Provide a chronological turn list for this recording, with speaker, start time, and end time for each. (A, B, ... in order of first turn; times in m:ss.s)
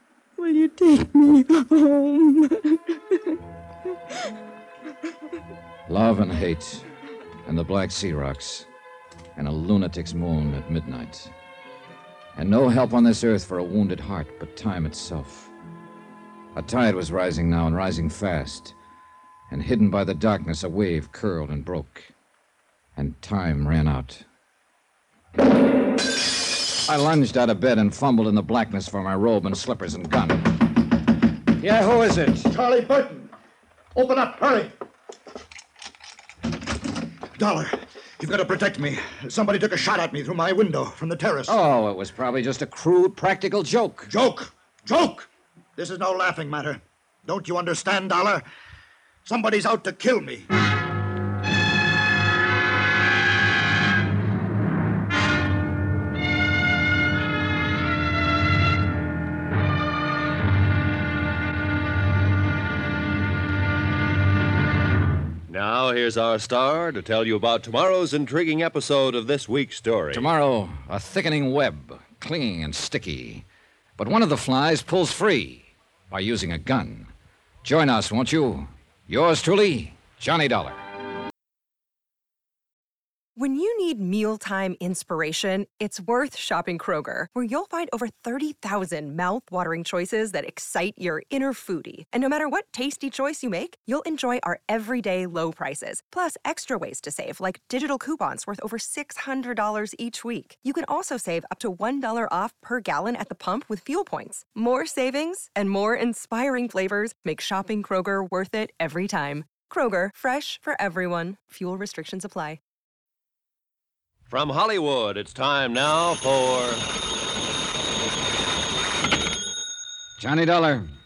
0:00.4-0:03.4 A
0:05.9-0:06.9 B
0:07.5-0:08.7 B
0:09.4-0:11.3 B
0:12.4-0:15.5 B
0:16.6-0:18.8 B
0:19.5-0:22.1 B
0:23.0-0:24.2 B
0:26.8-0:30.5 B
0:31.6-0:32.5 B
0:32.4-0:33.3 C
0:34.0-0:34.7 C
0:37.4-0:41.6 C
0:41.5-0:44.1 B
0:44.1-0:48.4 C
0:49.2-0:50.5 C
1:05.5-1:10.3 D
1:10.1-1:13.4 B
1:14.0-1:17.1 B
1:17.6-1:20.8 B
1:23.4-1:52.6 E
1:54.3-1:56.8 D
2:00.2-2:00.9 B